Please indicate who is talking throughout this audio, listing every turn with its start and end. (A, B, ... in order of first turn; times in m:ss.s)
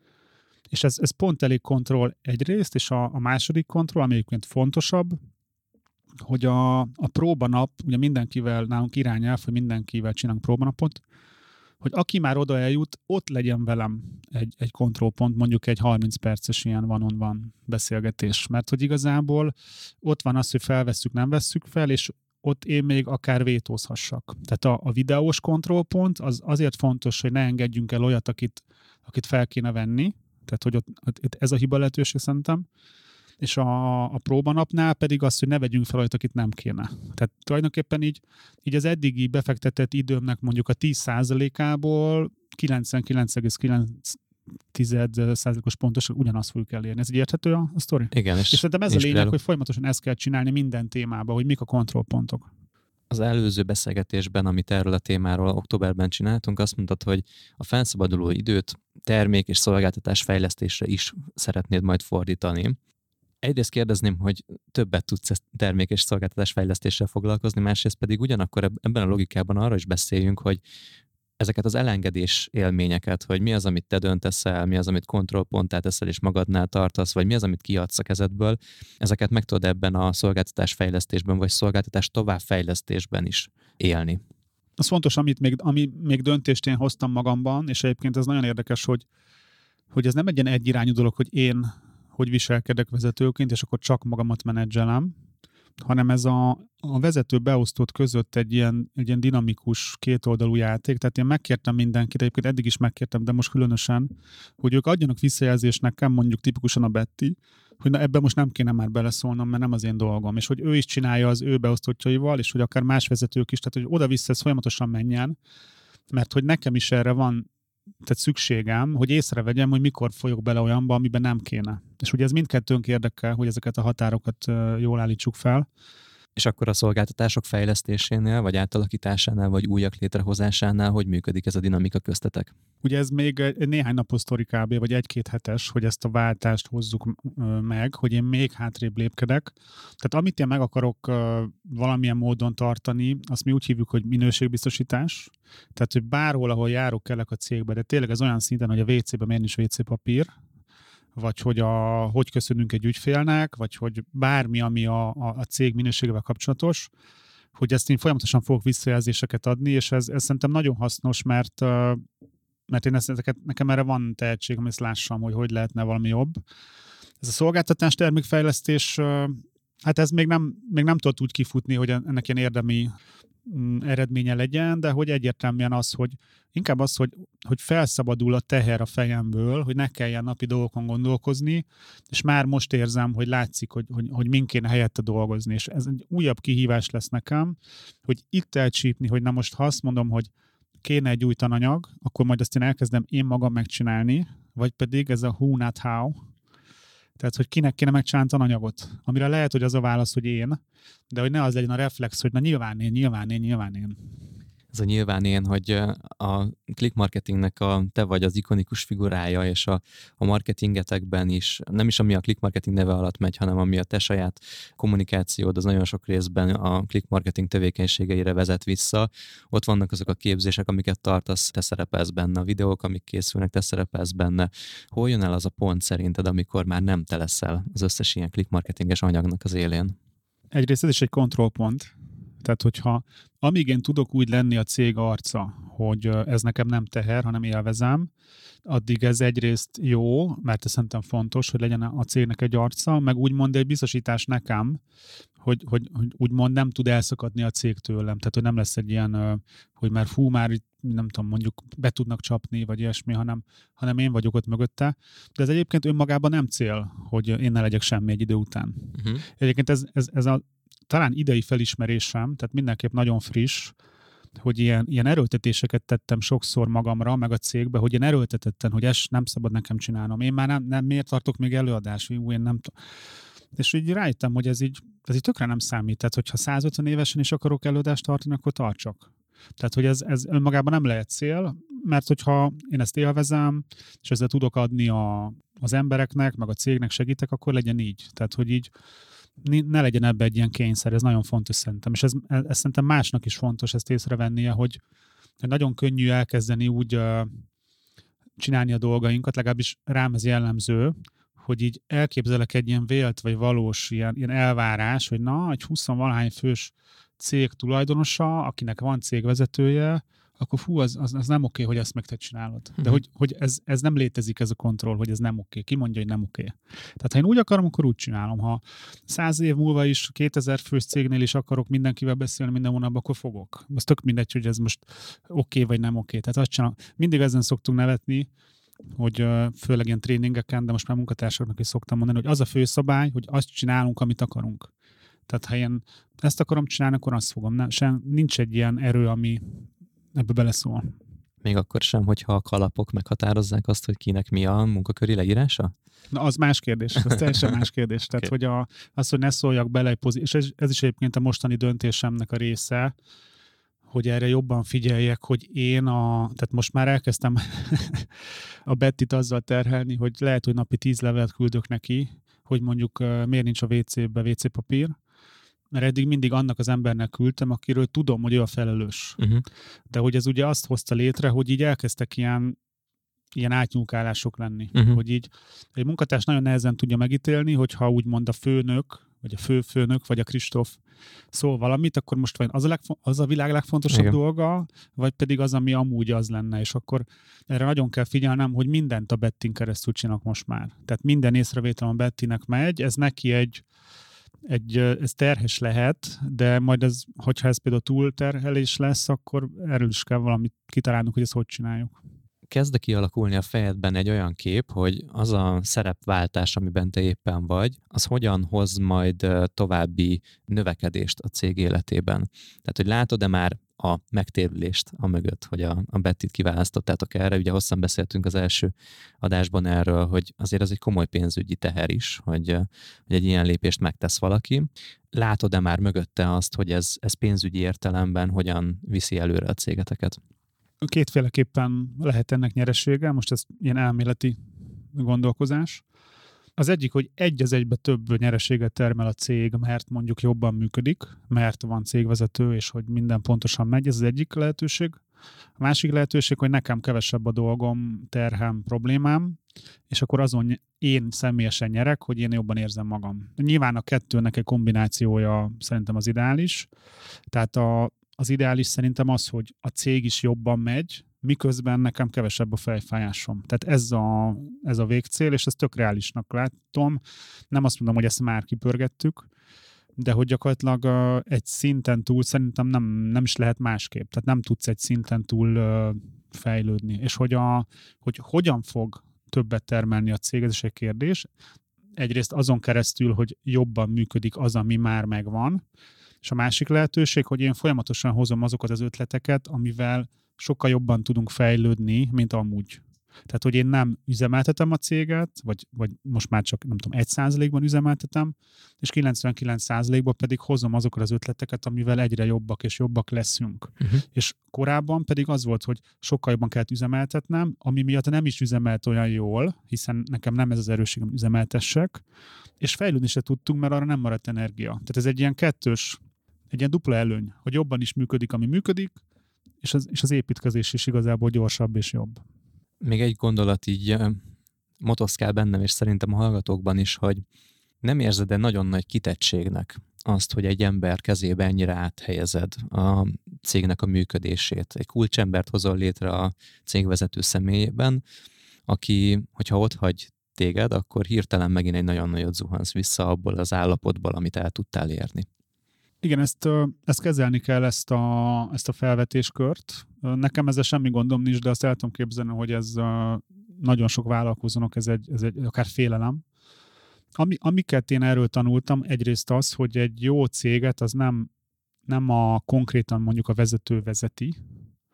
0:00.7-0:05.2 A
0:06.2-0:11.0 A
0:11.8-0:32.7 A
0:33.4-0:44.2 A
0:44.7-0:52.5 A
0:48.1-0:49.3 B
0:53.1-1:02.8 B
1:03.4-1:10.6 B
1:11.4-1:24.2 B
1:24.8-1:29.1 A
1:29.9-1:35.1 A
1:35.8-1:55.4 A
1:56.1-1:57.5 A
1:58.0-2:05.7 A
2:06.4-2:12.5 B
2:12.8-2:30.3 A
2:31.2-2:36.9 A
2:37.6-2:42.0 A
2:42.7-2:46.4 A
2:47.2-2:52.9 A
2:53.5-3:10.3 A
3:10.8-3:16.2 A
3:17.2-3:20.6 A
3:21.1-3:24.0 A
3:24.7-3:49.9 B
3:50.5-3:51.9 A
3:52.4-3:58.1 A
3:58.6-4:04.8 A
4:05.4-4:23.7 A
4:19.0-4:19.2 B
4:24.4-4:32.7 A
4:33.6-4:39.1 A
4:39.6-4:48.7 A
4:49.4-4:54.8 A
4:55.4-4:57.3 A
4:58.4-5:28.3 A
5:29.0-5:34.7 A
5:35.3-5:40.9 A
5:41.4-5:45.7 B
5:46.1-5:52.9 A
5:53.9-5:58.1 A
5:58.7-6:04.9 A
6:05.7-6:09.2 A
6:09.2-6:09.4 B
6:09.9-6:12.6 A
6:13.4-6:20.8 A
6:14.7-6:15.0 B
6:21.3-6:33.6 A
6:23.9-6:24.2 B
6:34.5-6:42.0 A
6:42.5-7:10.2 B
7:10.8-7:14.4 A
7:14.9-7:15.8 A
7:16.6-7:25.0 A
7:25.6-7:29.4 A
7:29.9-7:36.7 A
7:37.3-7:47.0 A
7:47.5-7:49.3 A
7:50.0-8:01.3 A
8:02.0-8:05.6 A
8:06.2-8:32.0 A
8:32.6-8:36.0 A
8:36.5-8:39.0 A
8:39.6-8:42.2 A
8:42.8-8:44.2 B
8:44.8-8:47.2 B
8:47.8-8:58.0 B
8:58.7-9:05.3 B
9:06.0-9:16.2 A
9:17.2-9:21.3 A
9:21.9-9:24.4 A